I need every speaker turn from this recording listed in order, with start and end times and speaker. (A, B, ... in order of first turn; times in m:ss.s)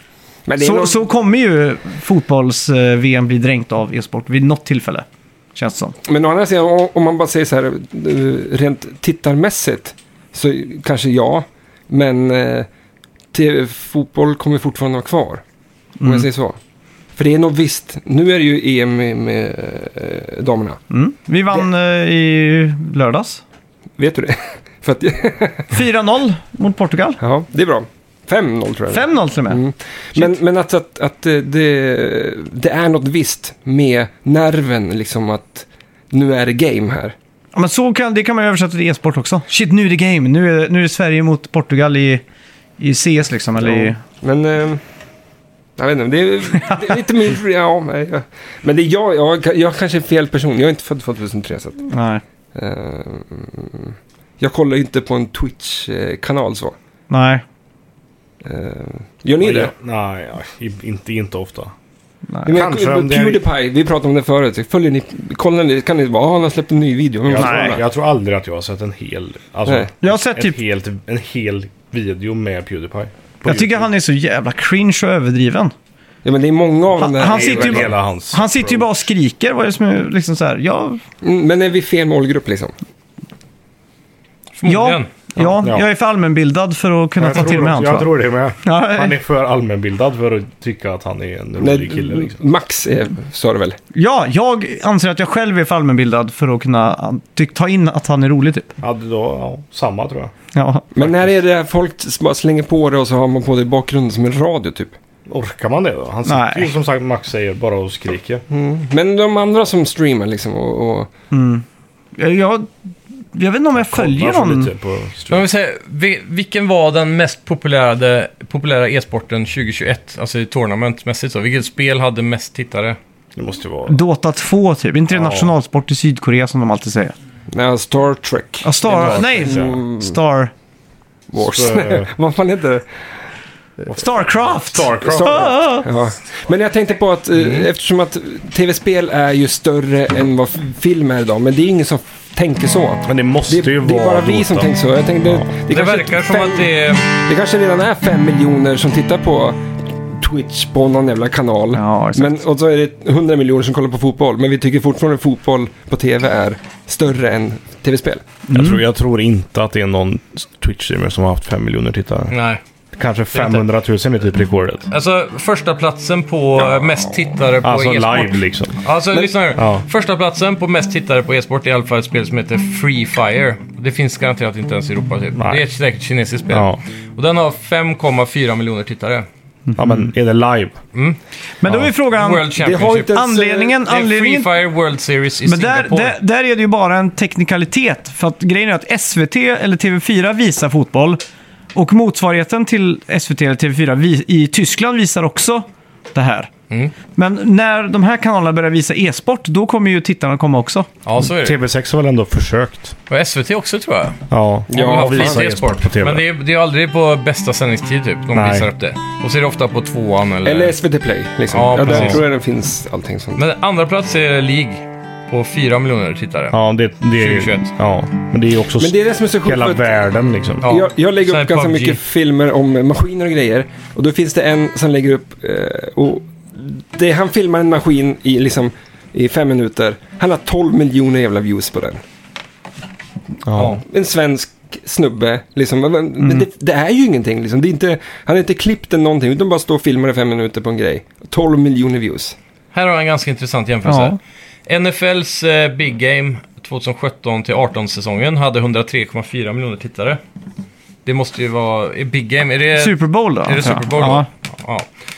0:00.4-0:01.0 A
0:00.6-0:05.9 B
0:06.0-0:12.7 A
0:13.3-0:15.4 A
0:16.0-0:16.3 B
0:16.0-0:16.6 A
0:17.2-0:20.8 A
0:20.9-0:23.4 B
0:24.0-0:25.8 A
0:25.7-0:27.2 B
0:27.2-0:37.2 A
0:28.9-0:29.6 B
0:37.5-0:42.2 B
0:42.8-0:44.0 B
0:43.6-0:44.8 A
0:45.8-0:51.8 A
0:51.9-0:52.2 B
0:52.5-0:56.8 A
0:57.1-0:57.4 B
0:58.4-0:59.7 A
0:59.4-1:01.7 C
1:02.3-1:02.5 B
1:02.4-1:07.8 A
1:02.5-1:03.4 C
1:07.2-1:13.9 C
1:07.4-1:07.8 B
1:10.0-1:10.6 B
1:13.4-1:15.7 B
1:16.2-1:17.9 A
1:17.0-1:21.0 B
1:17.2-1:18.8 C
1:21.2-1:22.7 A
1:24.6-1:25.1 D
1:24.6-1:28.1 B
1:25.6-1:25.8 C
1:27.2-1:32.4 C
1:28.6-1:29.1 B
1:31.6-1:33.8 A
1:33.9-1:38.7 B
1:38.8-1:40.3 C
1:40.5-1:40.8 B
1:40.9-1:45.0 A
1:41.0-1:41.3 C
1:45.3-1:48.4 C
1:46.2-1:46.7 B
1:48.5-1:51.1 A
1:51.3-1:51.6 B
1:52.2-1:52.7 B
1:53.3-1:54.7 B
1:53.7-1:55.4 C
1:55.3-2:03.0 D
2:03.4-2:04.0 C
2:03.9-2:07.1 B
2:05.1-2:05.5 C
2:07.5-2:10.2 A
2:08.6-2:10.5 B
2:08.8-2:09.8 C
2:11.3-2:12.9 A
2:11.4-2:12.1 C
2:13.9-2:15.5 C
2:13.9-2:15.9 B
2:15.0-2:38.2 A
2:23.0-2:24.7 C
2:25.7-2:27.0 D
2:31.7-2:32.4 B
2:38.5-2:38.8 B
2:38.5-2:42.3 C
2:42.3-2:42.6 D
2:42.9-2:44.9 C
2:43.3-2:43.6 D
2:44.9-2:59.2 D
2:46.6-2:47.1 A
2:47.6-2:48.8 C
2:49.6-2:49.8 C
2:55.4-2:55.6 C
2:56.5-2:56.8 C
2:59.8-3:00.8 C
3:01.6-3:02.5 B
3:02.1-3:03.2 D
3:02.6-3:03.8 A
3:03.1-3:04.5 B
3:03.8-3:06.2 D
3:05.4-3:11.2 B
3:11.7-3:16.5 B
3:17.2-3:20.9 B
3:21.0-3:21.6 D
3:21.2-3:23.0 C
3:23.1-3:24.2 D
3:24.3-3:26.2 C
3:24.7-3:30.8 D
3:24.7-3:25.4 A
3:28.3-3:28.7 C
3:30.4-3:33.4 A
3:31.5-3:32.2 D
3:31.8-3:32.2 C
3:33.4-3:36.6 D
3:36.5-3:40.7 C
3:37.2-3:37.7 D
3:38.8-3:39.9 A
3:40.6-3:42.0 D
3:40.6-3:52.0 A
3:53.4-3:53.8 C
3:53.6-3:53.8 D
3:53.6-4:02.4 A
3:56.2-3:56.4 B
4:02.7-4:10.2 D
4:03.8-4:04.2 B
4:11.0-4:14.9 D
4:12.8-4:14.3 B